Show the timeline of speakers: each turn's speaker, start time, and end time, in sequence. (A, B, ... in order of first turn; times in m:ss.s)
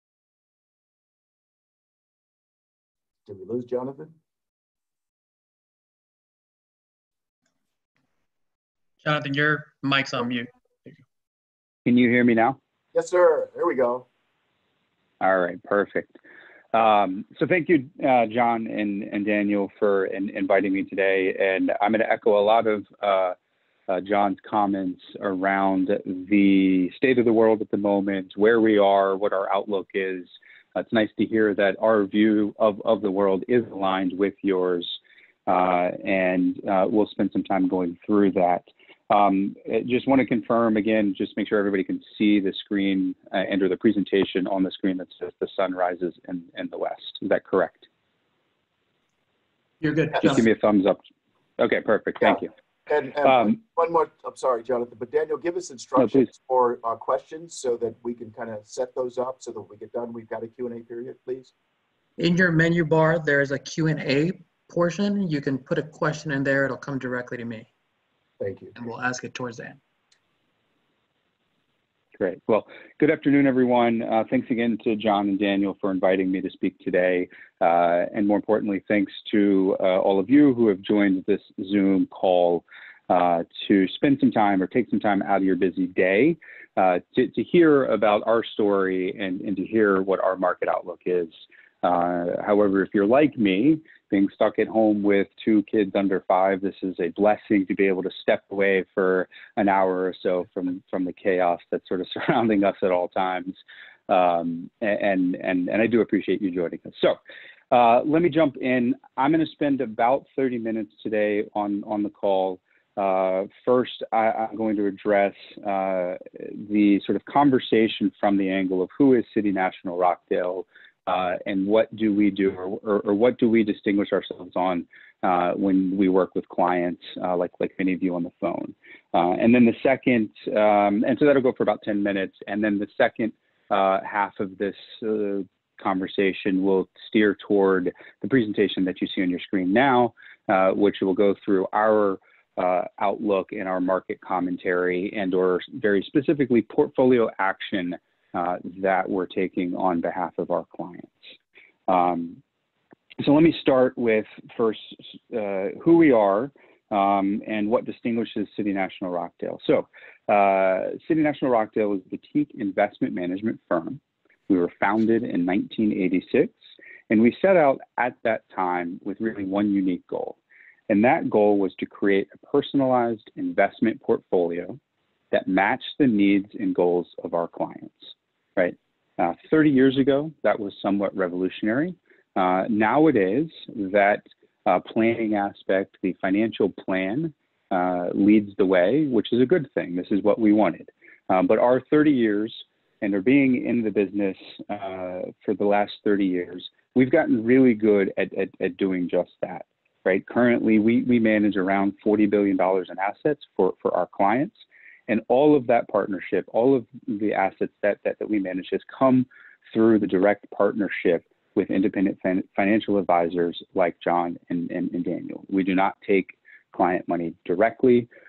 0:03.2-0:04.1 A
0:09.0-0:11.0 B
0:11.8-0:12.6 C
0:12.9-0:14.1 A
0:15.2-0:16.2 C
0:16.7-0:23.4 C
0:23.9-0:47.9 C
0:49.8-0:50.4 B
0:50.2-0:51.0 C
0:51.6-0:52.5 C
0:52.2-1:01.5 A
0:56.0-0:56.2 C
1:02.2-1:07.7 B
1:08.4-1:08.7 A
1:08.8-1:09.8 B
1:12.2-1:43.6 C
1:44.1-1:47.2 C
1:47.7-2:31.3 C
2:31.9-2:32.4 C
2:33.2-2:46.5 C
2:47.1-2:50.4 C
2:50.9-2:54.8 C
2:55.3-3:24.5 C
3:25.1-3:38.1 C